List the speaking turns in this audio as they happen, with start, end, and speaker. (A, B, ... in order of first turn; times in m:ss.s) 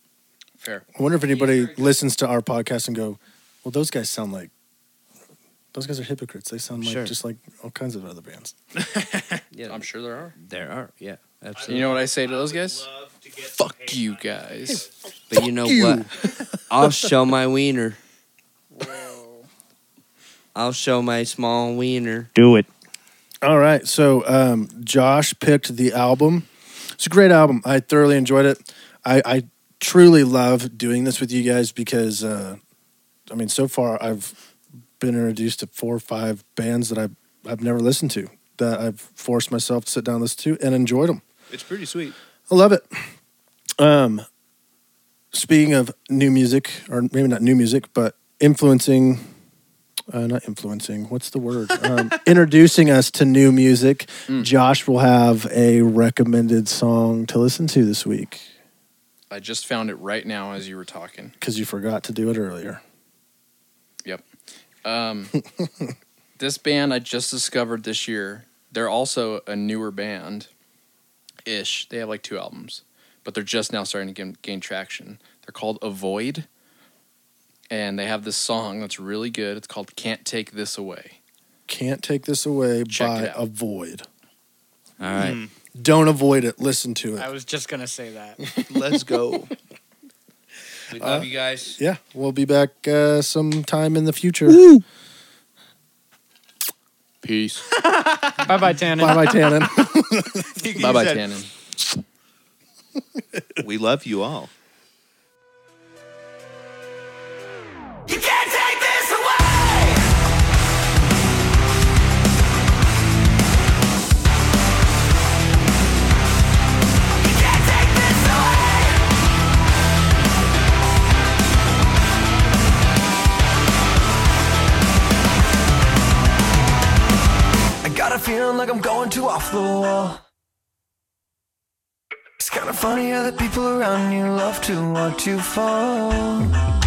0:00.6-0:00.8 A
0:01.0-0:04.5 B
0:01.3-0:02.0 C
0:05.7-0:08.6 B
0:06.8-0:07.1 D
0:08.8-0:09.4 E
0:09.5-0:09.8 D
0:09.7-0:10.4 A
0:10.4-0:11.9 D
0:11.5-0:15.1 E
0:11.7-0:12.9 A
0:13.4-0:14.9 A
0:15.3-0:16.1 D
0:15.4-0:16.1 B
0:16.7-0:18.0 D
0:18.7-0:19.5 C
0:20.6-0:22.3 D
0:22.4-0:22.7 E
0:23.4-0:32.6 B
0:33.3-0:34.4 B
0:35.0-0:41.2 B
0:41.5-0:42.2 E
0:42.5-0:43.1 B
0:43.8-0:44.3 B
0:45.3-0:49.3 B
0:50.1-0:58.5 B
0:59.3-1:01.3 A
1:01.4-1:02.8 B
1:04.0-1:04.3 A
1:04.8-1:05.4 A
1:05.5-1:05.9 B
1:06.4-1:10.5 A
1:11.4-1:16.5 A
1:17.7-1:21.2 A
1:21.7-1:24.1 B
1:22.9-1:23.4 A
1:25.0-1:25.4 D
1:25.2-1:25.5 E
1:25.8-1:27.3 B
1:27.2-1:28.4 C
1:28.4-1:29.2 B
1:28.7-1:29.5 E
1:30.9-1:31.8 D
1:31.0-1:34.6 B
1:37.2-1:37.7 A
1:38.0-1:38.4 E
1:38.4-1:39.4 C
1:39.0-1:40.5 B
1:40.4-1:41.3 E
1:40.8-1:41.5 A
1:43.6-1:44.5 E
1:48.1-1:50.1 F
1:57.2-1:59.1 F
2:07.8-2:10.2 F
2:12.4-2:16.5 F